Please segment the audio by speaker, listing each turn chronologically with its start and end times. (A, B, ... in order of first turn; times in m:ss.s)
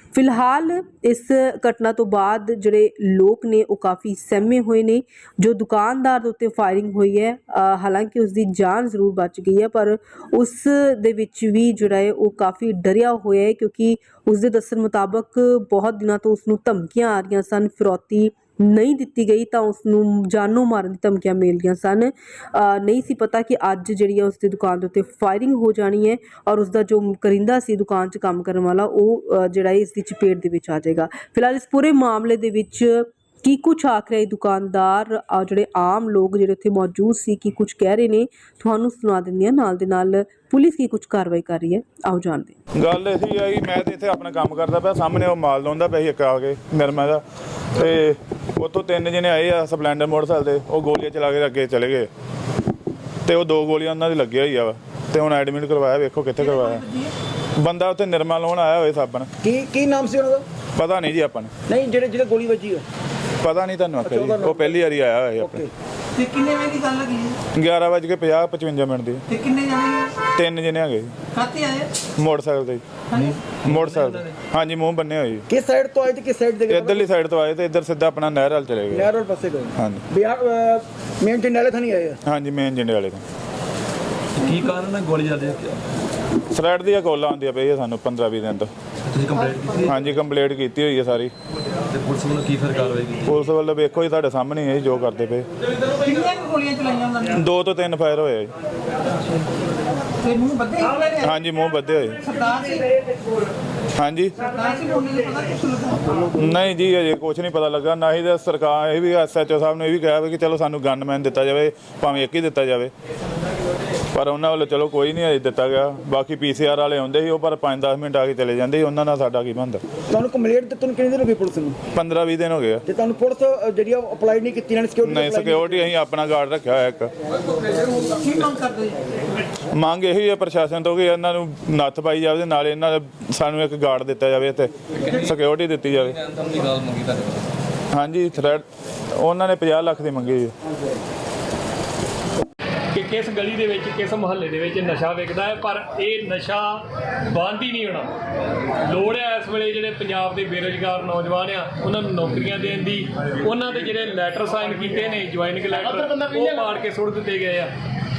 0:00.1-0:42.6 A
0:42.8-0:47.2 B
0:47.8-0:52.1 B
0:53.3-0:56.8 B
0:56.6-0:57.1 C
0:57.6-0:59.3 B
0:59.4-1:00.5 D
1:00.8-1:01.5 B
1:01.7-1:02.8 D
1:03.4-1:05.6 B
1:04.0-1:04.8 D
1:05.4-1:05.7 D
1:06.2-1:07.4 C
1:07.6-1:09.2 B
1:09.3-1:10.2 C
1:10.3-1:11.1 B
1:11.4-1:11.9 C
1:12.2-1:12.8 B
1:13.1-1:13.4 C
1:13.6-1:15.5 B
1:15.5-1:17.1 D
1:16.7-1:19.1 B
1:18.9-1:22.2 D
1:19.8-1:20.0 B
1:22.3-1:23.2 B
1:24.4-1:25.8 E
1:26.5-1:28.7 B
1:29.1-1:29.9 E
1:29.9-1:31.3 B
1:31.9-1:33.3 E
1:33.2-1:35.5 B
1:36.0-1:37.3 C
1:37.3-1:38.5 B
1:40.2-1:41.3 C
1:41.2-1:42.2 B
1:42.2-1:42.9 C
1:44.0-1:44.4 B
1:44.4-1:46.2 C
1:46.3-1:52.9 B
1:54.1-1:59.8 B
2:00.1-2:01.8 D
2:01.9-2:02.8 B
2:02.8-2:05.8 D
2:05.0-2:07.1 B
2:07.9-2:09.2 C
2:09.7-2:16.2 B
2:16.4-2:17.4 E
2:17.9-2:18.6 B
2:19.2-2:20.5 B
2:22.9-2:28.1 F
2:28.8-2:37.7 F